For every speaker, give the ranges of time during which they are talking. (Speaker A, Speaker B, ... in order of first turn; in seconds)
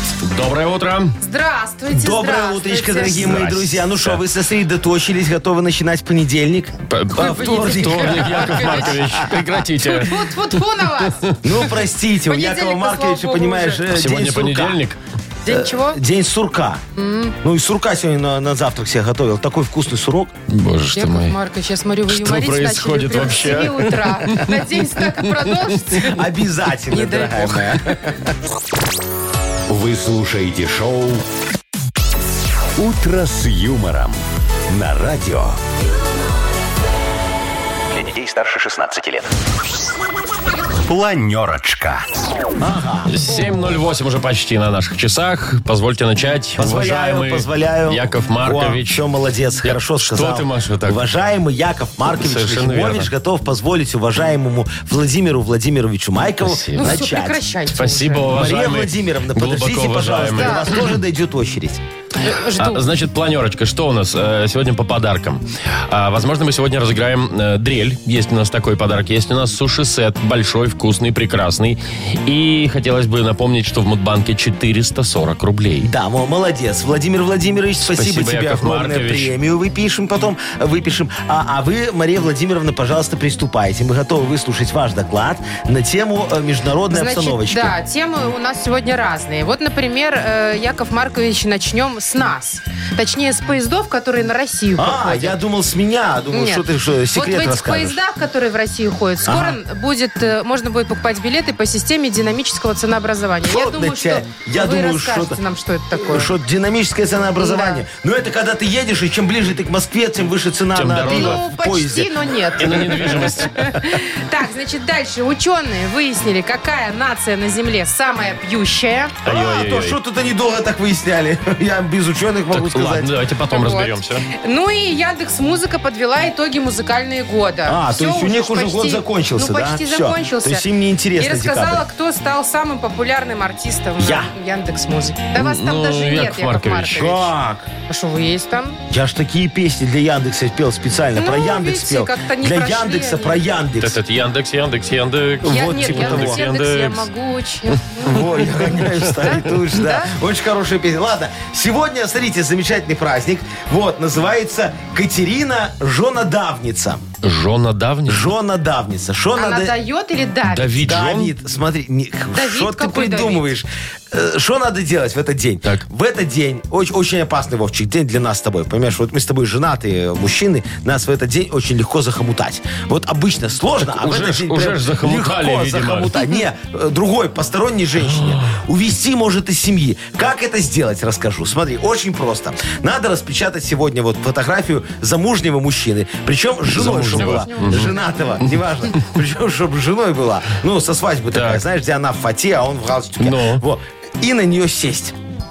Speaker A: 0.2-1.2, 3.1-4.2, 6.9-10.6, 13.9-15.0, 20.5-21.4, 22.1-25.6, 43.1-49.0, 49.6-51.0, 52.2-53.1, 56.4-57.0, 57.8-60.9, 62.6-75.9, 77.8-79.3, 110.8-111.4, 112.6-113.6, 119.2-120.0, 122.5-124.2, 135.3-137.1, 143.8-147.1, 157.2-158.3, 160.5-161.3, 173.9-176.3, 178.1-178.5, 186.7-189.0, 191.3-191.6, 193.2-193.6
Speaker B: 1.2-3.4, 7.1-9.0, 9.7-11.4, 12.3-13.8, 15.4-16.0, 17.0-17.4, 20.9-26.2, 26.9-27.9, 56.8-58.3, 60.3-60.7, 62.2-62.9, 86.9-95.4, 96.3-106.3, 107.4-107.8, 111.1-119.2, 123.5-137.3, 137.9-138.8, 141.2-143.4, 145.5-150.1, 159.3-160.9, 162.3-163.5, 187.2-188.4
Speaker C: 1.9-9.4, 11.4-14.8, 15.5-16.8, 17.4-20.3, 26.0-28.3, 42.6-43.1, 46.6-57.4, 58.3-61.8, 75.8-87.8, 94.8-98.0, 99.2-99.6, 103.5-105.4, 105.9-113.9, 119.3-123.2, 127.7-131.8, 134.0-134.3, 136.9-137.7, 138.9-144.0, 145.4-146.4, 148.0-157.1, 158.1-159.8, 160.8-195.2
Speaker D: 29.7-31.2, 32.8-34.2, 34.7-35.6, 37.9-39.3, 40.9-42.1